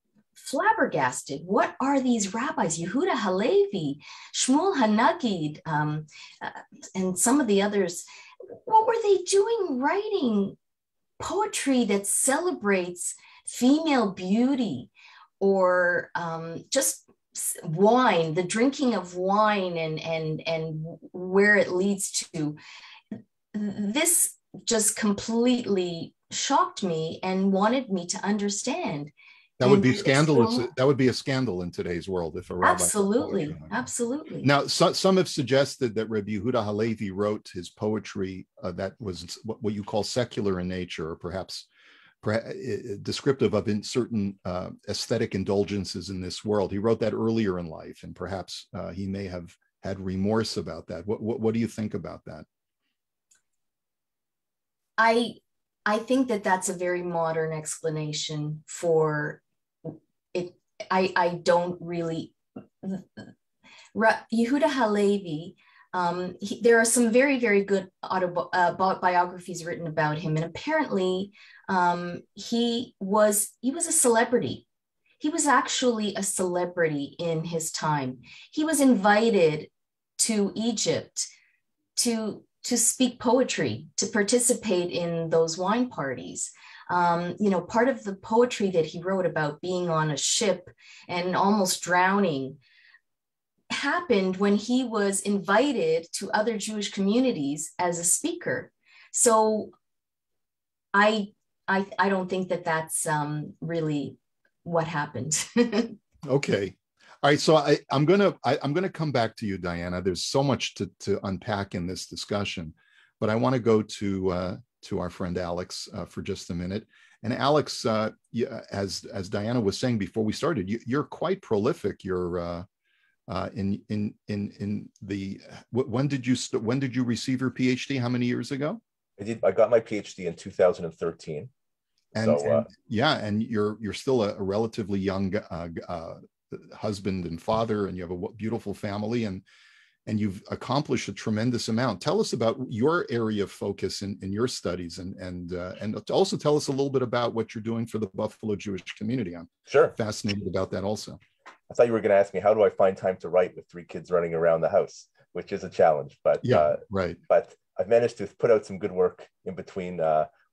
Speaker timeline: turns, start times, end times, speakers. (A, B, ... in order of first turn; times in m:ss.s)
0:00.4-0:10.6 A
0:11.2-0:22.6 A
0:23.5-0:29.1 A
0:29.6-0:33.7 B
0:29.6-0:30.7 A
0:32.6-0:34.5 A
0:34.4-0:41.7 B
0:42.2-0:52.4 B
0:55.0-1:03.3 A
1:03.9-1:14.6 A
1:15.2-1:21.3 A
1:22.0-1:32.6 A
1:33.7-1:39.7 A
1:40.9-1:46.0 A
1:46.2-2:02.6 B
2:03.3-2:08.8 B
2:09.2-2:11.5 C
2:12.1-2:12.7 C
2:12.1-2:19.4 B
2:20.0-2:31.2 B
2:29.7-2:29.9 C
2:31.7-2:40.3 C
2:36.4-2:37.2 B